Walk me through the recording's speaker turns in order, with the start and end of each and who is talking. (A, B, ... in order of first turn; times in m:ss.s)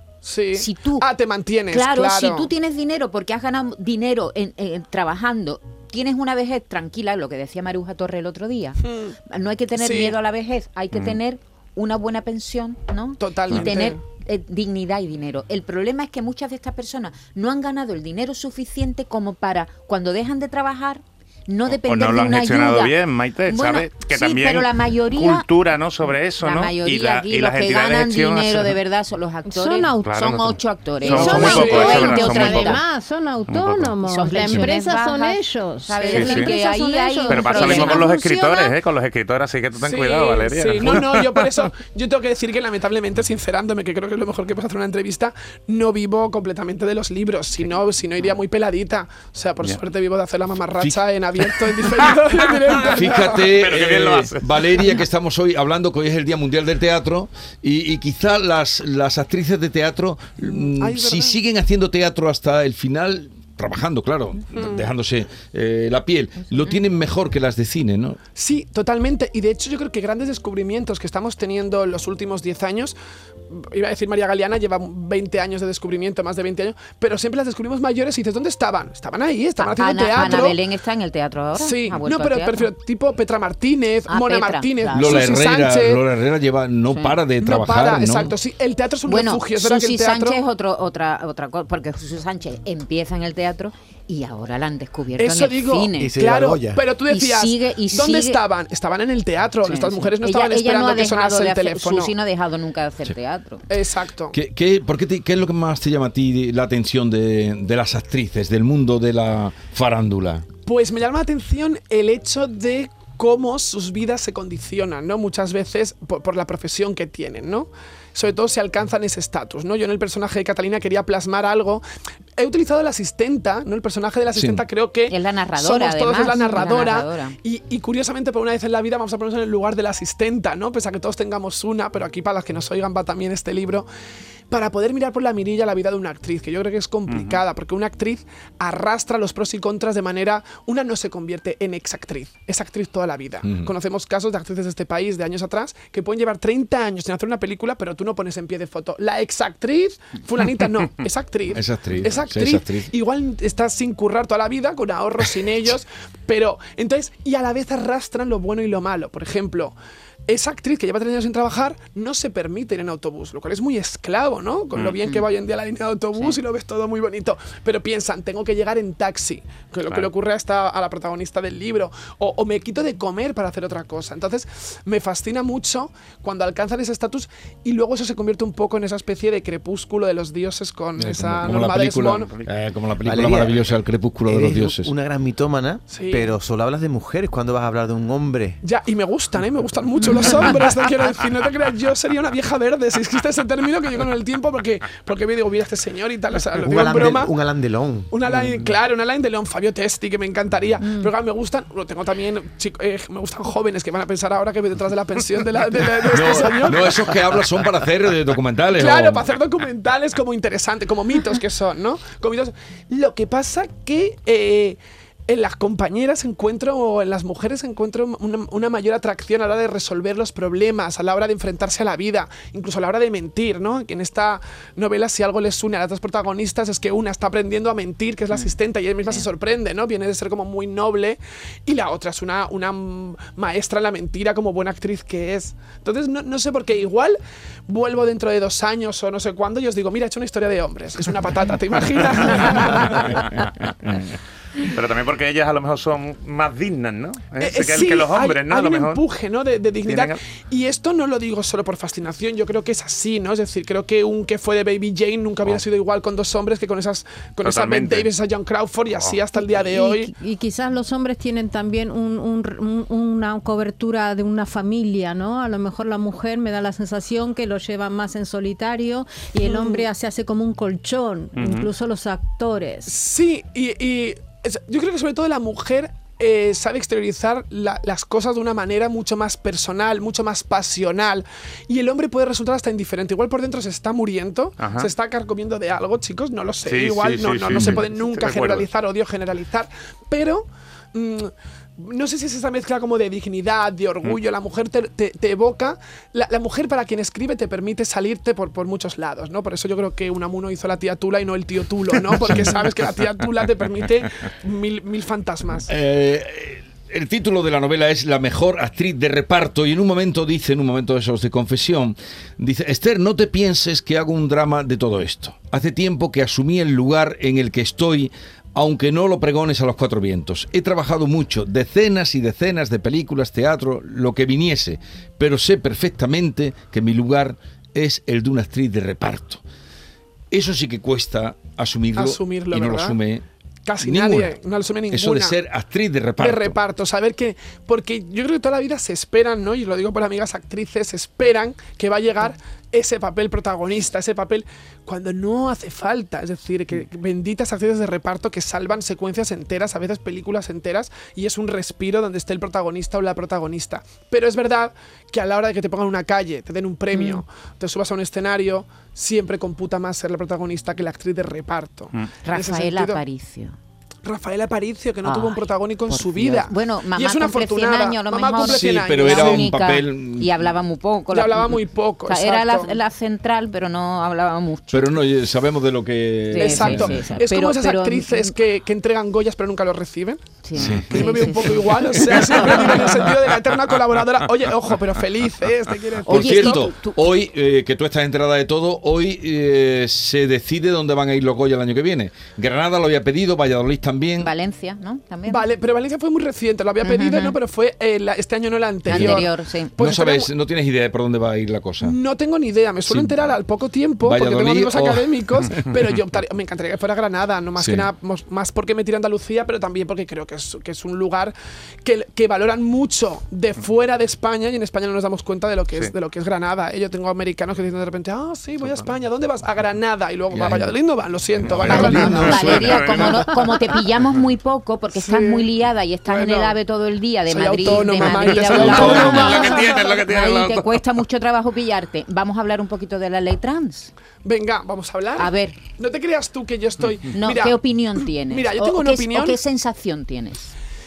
0:00.2-0:02.5 A
0:00.6-0:01.1 B
0:01.7-0:22.9 B
0:08.9-0:09.1 A
0:09.8-0:10.2 A
0:13.2-0:14.0 A
0:21.7-0:28.8 C
0:23.5-0:25.5 B
0:26.4-0:32.8 B
0:29.5-0:30.1 D
0:30.0-0:32.8 C
0:31.0-0:38.2 D
0:33.5-0:33.9 C
0:34.0-0:38.7 B
0:36.1-0:36.5 C
0:37.3-0:41.6 C
0:39.8-0:53.4 A
0:52.7-0:54.9 C
0:52.9-1:08.2 E
1:00.5-1:01.4 A
1:04.6-1:04.8 A
1:08.4-1:13.0 A
1:13.5-1:20.6 A
1:19.6-1:22.7 B
1:21.6-1:26.0 A
1:24.1-1:25.4 B
1:24.9-1:28.4 E
1:26.9-1:27.2 B
1:27.4-1:30.4 A
1:29.1-1:36.1 B
1:35.2-1:42.1 A
1:36.0-1:36.8 F
1:37.1-1:38.4 B
1:39.6-1:43.7 B
1:43.7-1:44.4 A
1:44.3-1:50.4 E
1:50.6-2:01.8 A
2:02.4-2:13.9 A
2:04.4-2:04.6 E
2:05.1-2:07.4 B
2:14.5-2:39.8 A
2:17.1-2:17.4 C
2:23.4-2:23.7 E
2:31.5-2:32.9 E
2:40.3-3:02.3 A
3:01.0-3:04.9 E
3:03.0-3:03.6 F
3:04.3-3:08.6 F
3:05.9-3:06.3 A
3:08.6-3:17.3 A
3:16.6-3:18.1 F
3:18.1-3:27.0 A
3:26.1-3:29.3 E
3:28.7-4:03.4 A
4:04.6-4:09.0 C
4:07.4-4:20.1 A
4:09.8-4:10.2 C
4:17.4-4:18.1 C
4:19.5-4:32.9 D
4:29.4-4:29.8 A
4:31.4-4:31.7 C
4:32.9-5:05.7 A
4:44.6-4:44.9 C
4:46.7-4:48.7 C
4:47.5-4:47.8 E
5:02.2-5:02.5 E
5:05.7-5:29.4 E
5:30.3-5:33.2 E
5:32.0-5:33.0 A
5:33.6-5:35.4 A
5:33.8-5:34.4 E
5:34.9-5:36.6 E
5:36.2-6:03.0 A
5:56.9-5:57.2 B
6:02.2-6:03.6 B
6:04.0-6:09.5 A
6:05.0-6:15.0 B
6:08.4-6:10.5 E
6:11.1-6:12.8 A
6:14.7-6:17.2 E
6:16.3-6:18.3 B
6:16.4-6:20.2 A
6:20.4-6:22.9 B
6:20.6-6:21.2 E
6:20.6-6:20.8 C
6:20.9-6:26.7 A
6:26.0-6:34.3 E
6:26.0-6:27.1 B
6:34.2-6:35.5 B
6:35.3-6:40.3 A
6:36.8-6:37.4 B
6:38.9-6:39.8 B
6:38.9-6:39.2 E
6:39.8-6:42.0 E
6:41.8-7:02.6 A
6:42.9-6:43.3 E
6:44.0-6:45.7 E
6:47.6-6:47.9 E
7:00.3-7:00.7 E
7:01.5-7:03.3 C
7:01.5-7:03.2 E
7:01.7-7:13.9 B
7:04.9-7:05.5 A
7:06.0-7:06.6 A
7:07.3-7:10.0 A
7:08.1-7:10.8 C
7:08.5-7:09.4 E
7:14.2-7:17.6 A
7:15.2-7:15.6 B
7:17.1-7:20.5 B
7:18.2-7:19.4 A